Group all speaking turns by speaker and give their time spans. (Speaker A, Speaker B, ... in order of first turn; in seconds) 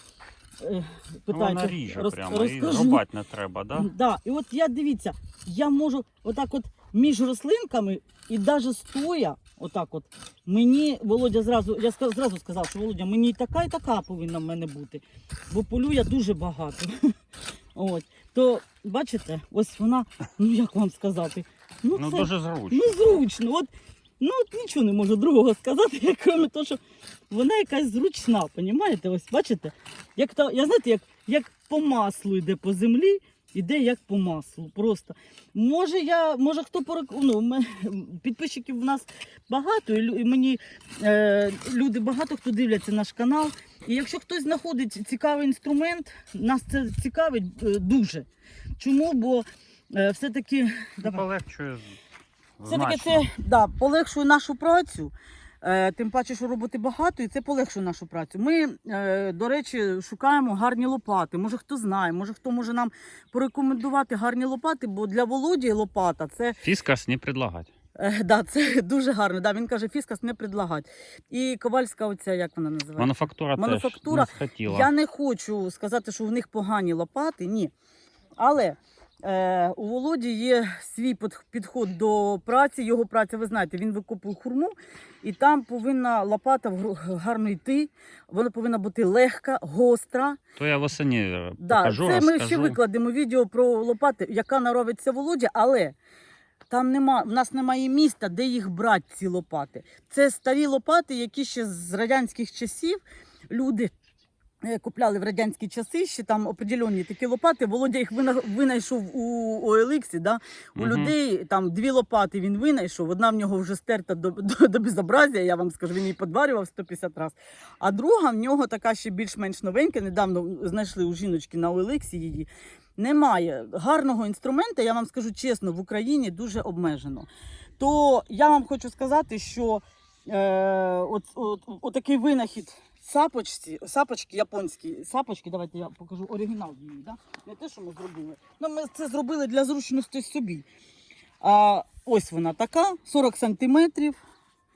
Speaker A: 0.6-3.0, 3.7-17.1, 17.7-48.3, 48.8-51.2, 52.7-66.6, 68.0-77.7, 78.4-90.4, 91.6-95.9, 96.7-103.9, 104.6-140.7, 141.4-144.2
Speaker B: 1.3-3.9, 21.9-23.2, 51.0-52.0, 52.6-53.3, 66.6-67.7, 73.0-74.9, 90.6-92.8, 110.8-111.1